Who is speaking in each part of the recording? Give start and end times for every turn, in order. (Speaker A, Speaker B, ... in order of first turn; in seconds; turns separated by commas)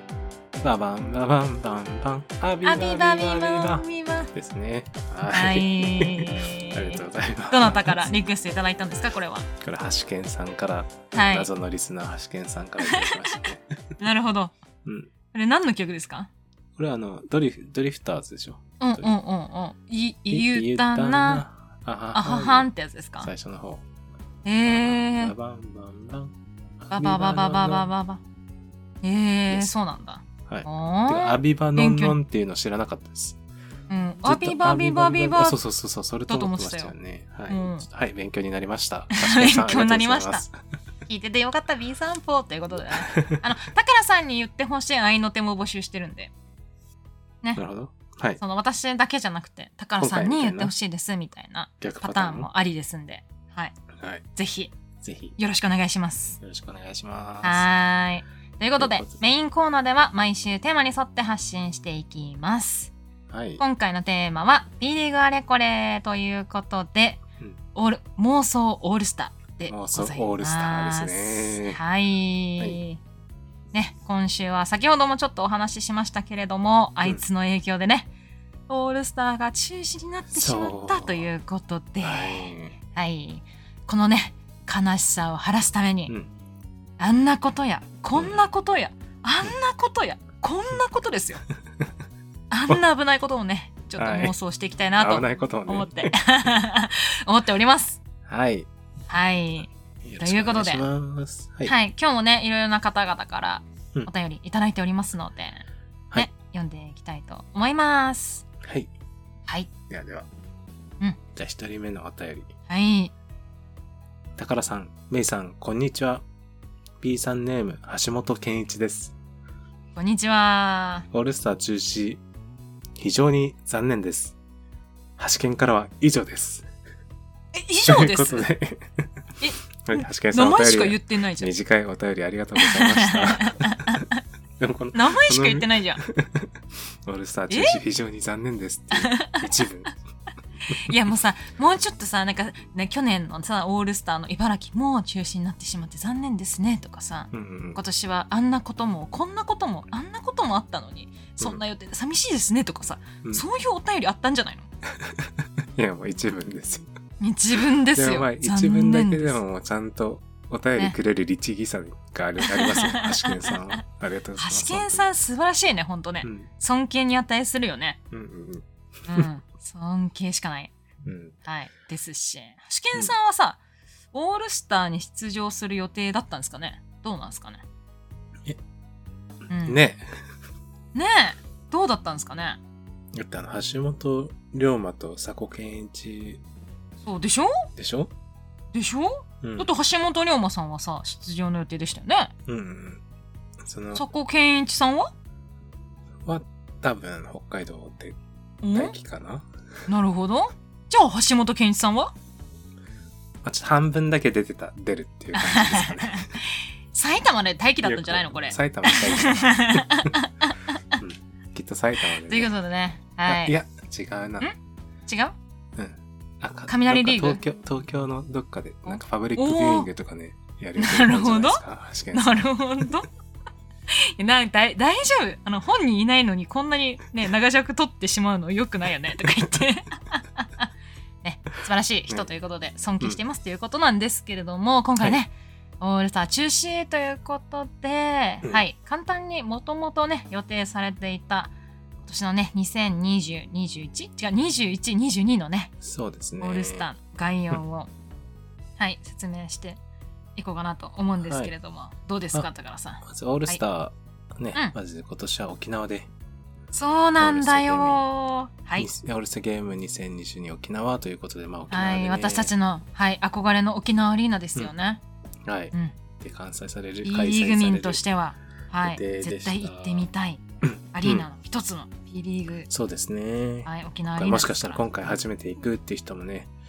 Speaker A: 0.6-8.1, Speaker B: 2.6-4.3, Speaker B: 5.3-9.5, Speaker A: 9.6-13.8, Speaker B: 11.1-11.5, Speaker B: 12.8-13.4, Speaker B: 14.0-14.5, Speaker A: 14.8-15.1, Speaker B: 15.3-16.3, Speaker A: 16.8-19.1, Speaker B: 18.8-21.4, Speaker A: 20.3-23.8, Speaker B: 22.1-23.3, Speaker B: 24.4-25.3, Speaker A: 24.6-27.9, Speaker B: 26.9-28.2, Speaker B: 29.0-32.2, Speaker A: 29.5-29.7, Speaker A: 30.5-33.4, Speaker B: 33.9-35.6, Speaker A: 34.2-40.5, Speaker B: 36.3-36.9, Speaker B: 37.5-37.9, Speaker B: 39.1-40.4, Speaker B: 41.1-46.3, Speaker A: 42.9-43.4, Speaker A: 47.5-48.4, Speaker B: 48.4-53.8, Speaker A: 50.0-50.7, Speaker A: 51.8-52.5, Speaker A: 53.9-54.2, Speaker B: 54.4-54.7, Speaker A: 55.0-55.4, Speaker B: 55.4-56.4, Speaker A: 56.4-57.7, Speaker B: 57.4-62.9, Speaker A: 58.8-59.2, Speaker A: 63.3-63.6, Speaker B: 63.6-67.2, Speaker B: 67.7-73.0, Speaker A: 69.7-71.8, Speaker B: 73.7-78.1, Speaker B: 78.7-86.1, Speaker A: 80.3-81.3, Speaker A: 82.0-82.8, Speaker B: 87.0-91.4, Speaker A: 88.1-88.5, Speaker B: 92.5-98.0, Speaker A: 94.0-94.3, Speaker A: 95.0-96.1, Speaker A: 98.2-98.7, Speaker B: 99.1-100.8, Speaker A: 100.0-101.7, Speaker B: 101.6-108.5, Speaker A: 108.6-108.9, Speaker A: 109.9-110.3, Speaker A: 111.3-112.5, Speaker B: 112.7-113.1, Speaker A: 114.4-116.2, Speaker A: 117.0-119.2, Speaker B: 120.0-121.1, Speaker A: 121.1-122.2, Speaker A: 123.0-124.4, Speaker A: 125.2-126.7, Speaker B: 127.5-128.5, Speaker A: 127.8-129.1, Speaker B: 129.4-131.5, Speaker A: 129.8-134.0, Speaker B: 132.6-134.2, Speaker A: 134.6-136.5, Speaker B: 134.9-136.0, Speaker A: 137.0-139.9, Speaker B: 137.5-137.8, Speaker B: 138.9-139.5, Speaker B: 140.7-154.7, Speaker A: 147.3-147.8, Speaker A: 155.0-156.9, Speaker B: 157.2-159.4, Speaker A: 157.9-165.1, Speaker B: 162.4-163.8, Speaker B: 164.4-168.0, Speaker A: 166.2-166.5, Speaker A: 168.1-169.3, Speaker B: 169.1-170.7, Speaker A: 171.0-171.3, Speaker B: 171.4-173.6, Speaker B: 174.1-177.6, Speaker B: 179.5-179.8, Speaker A: 179.6-180.1, Speaker B: 180.9-182.6, Speaker A: 183.1-186.4, Speaker B: 187.0-187.7, Speaker A: 187.8-188.1, Speaker B: 188.7-192.3, Speaker A: 189.4-189.7, Speaker A: 192.5-193.0, Speaker A: 193.6-194.0, Speaker B: 193.9-195.1, Speaker A: 196.2-198.2, Speaker B: 198.6-198.9, Speaker A: 198.7-199.5, Speaker B: 199.9-202.1, Speaker A: 203.4-206.4, Speaker B: 205.3-211.0, Speaker A: 207.8-210.1, Speaker A: 211.0-212.5, Speaker B: 212.1-213.5, Speaker A: 213.2-214.5, Speaker B: 215.1-215.3, Speaker A: 215.8-222.9, Speaker B: 216.7-217.4, Speaker B: 218.8-219.9, Speaker B: 220.8-221.6, Speaker B: 222.1-223.1, Speaker B: 223.9-230.7, Speaker B: 231.2-241.5, Speaker B: 242.0-245.7, Speaker A: 245.8-246.9, Speaker B: 246.4-247.9, Speaker B: 248.8-249.8, Speaker B: 250.3-253.6, Speaker A: 251.2-251.5, Speaker A: 253.0-256.1, Speaker B: 256.7-258.9, Speaker A: 257.2-258.1, Speaker A: 258.8-262.5, Speaker B: 261.7-265.0, Speaker A: 265.4-268.0, Speaker B: 267.0-270.4, Speaker A: 268.8-270.1, Speaker A: 270.6-271.3, Speaker B: 270.9-272.7, Speaker A: 272.7-276.5, Speaker B: 273.6-274.8